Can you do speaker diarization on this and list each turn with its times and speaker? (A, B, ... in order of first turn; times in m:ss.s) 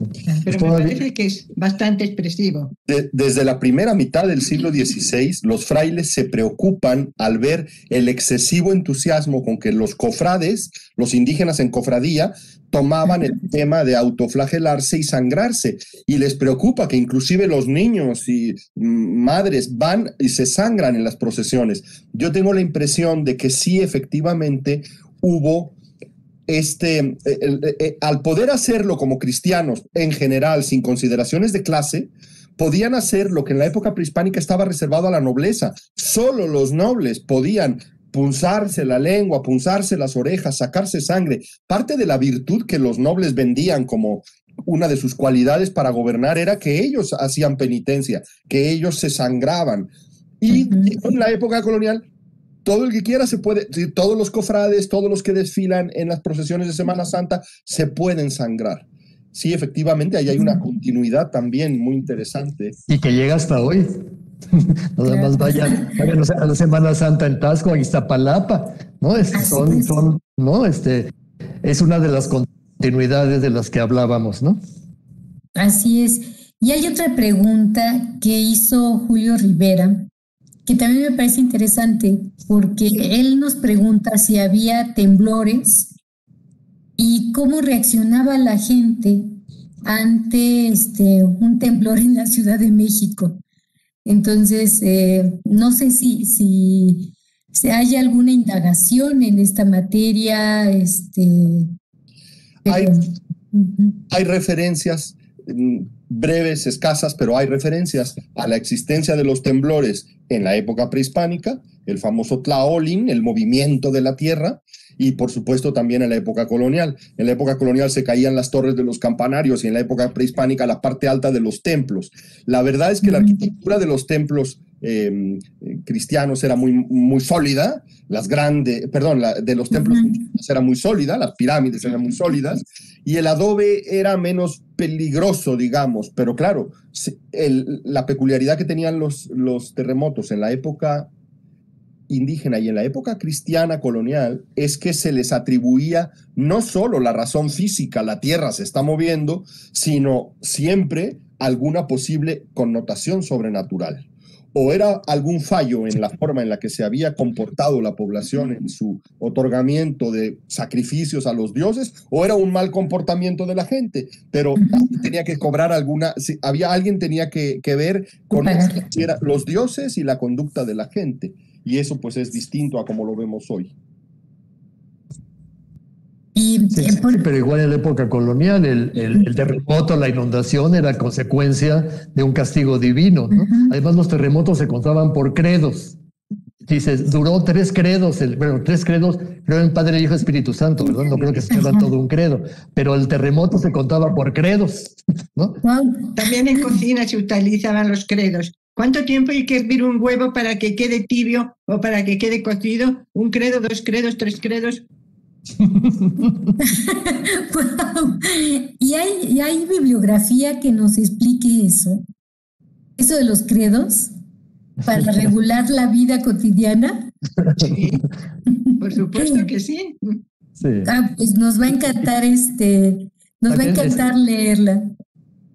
0:00.4-0:02.7 A
0:00.5-0:01.0 B
0:02.9-0:25.7 C
0:26.5-0:49.9 C
0:50.4-0:52.0 C
0:52.6-1:02.8 C
1:02.9-1:03.9 B
1:04.5-1:11.1 B
1:05.0-1:05.9 D
1:09.3-1:10.0 D
1:11.6-1:14.6 B
1:15.6-1:20.1 D
1:20.6-1:25.9 D
1:27.0-1:33.4 D
1:34.0-1:41.7 D
1:42.6-1:44.0 D
1:42.6-1:42.9 C
1:44.1-2:21.1 C
2:09.9-2:10.2 D
2:22.1-2:53.7 C
2:44.6-2:44.9 D
2:48.3-2:48.8 D
2:56.4-2:57.2 D
2:56.7-3:05.9 B
3:03.3-3:03.7 D
3:06.6-3:15.6 B
3:15.6-3:16.2 D
3:16.2-3:24.8 A
3:25.8-3:26.1 B
3:26.6-3:32.0 D
3:33.0-3:34.1 D
3:34.8-3:37.1 D
3:37.4-3:37.7 B
3:37.6-3:38.0 A
3:38.5-3:39.4 D
3:38.8-3:40.2 A
3:40.6-3:40.9 B
3:40.8-3:44.9 D
3:43.5-3:44.0 B